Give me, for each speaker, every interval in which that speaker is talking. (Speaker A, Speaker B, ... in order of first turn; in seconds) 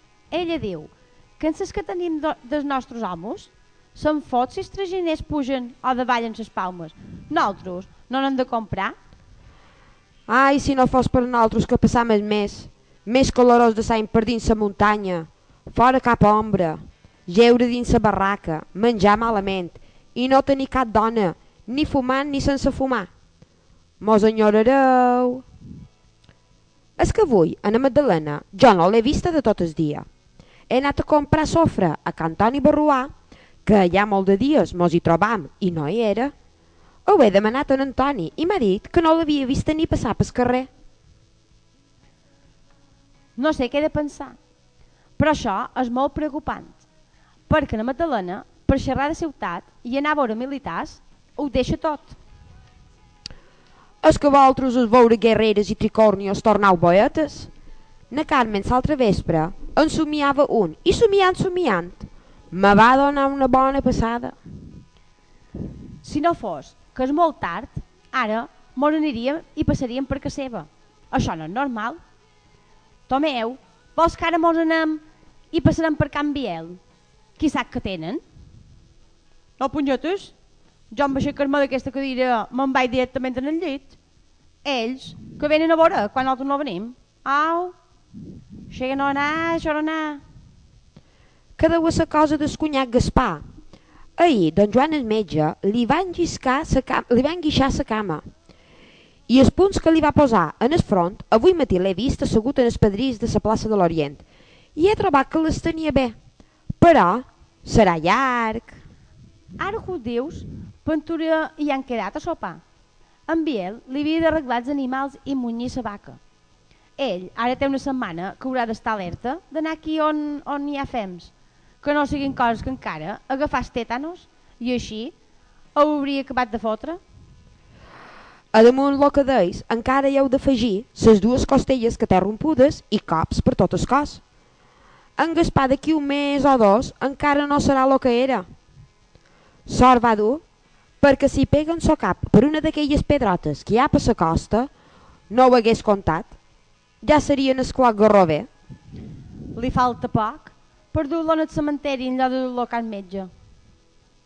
Speaker A: 0.3-8.9, 43.4-44.4, 45.2-46.8, 47.5-52.2, 66.0-72.0, 73.1-76.8, 77.4-78.2, 79.6-80.3, 80.9-84.0, 84.6-87.7, 88.7-90.2, 109.6-112.6, 113.3-116.2, 117.0-125.1, 125.8-127.0, 149.5-153.3
Speaker B: 10.3-23.1, 24.0-25.4, 27.0-30.1, 30.7-33.1, 33.6-36.3, 37.0-40.7, 54.0-57.5, 58.1-64.4, 91.6-93.4, 94.2-98.2, 99.3-104.2, 104.8-106.1, 106.8-108.8, 128.5-134.2, 135.2-138.4, 139.7-140.4, 141.0-144.7, 145.3-146.3, 147.0-148.5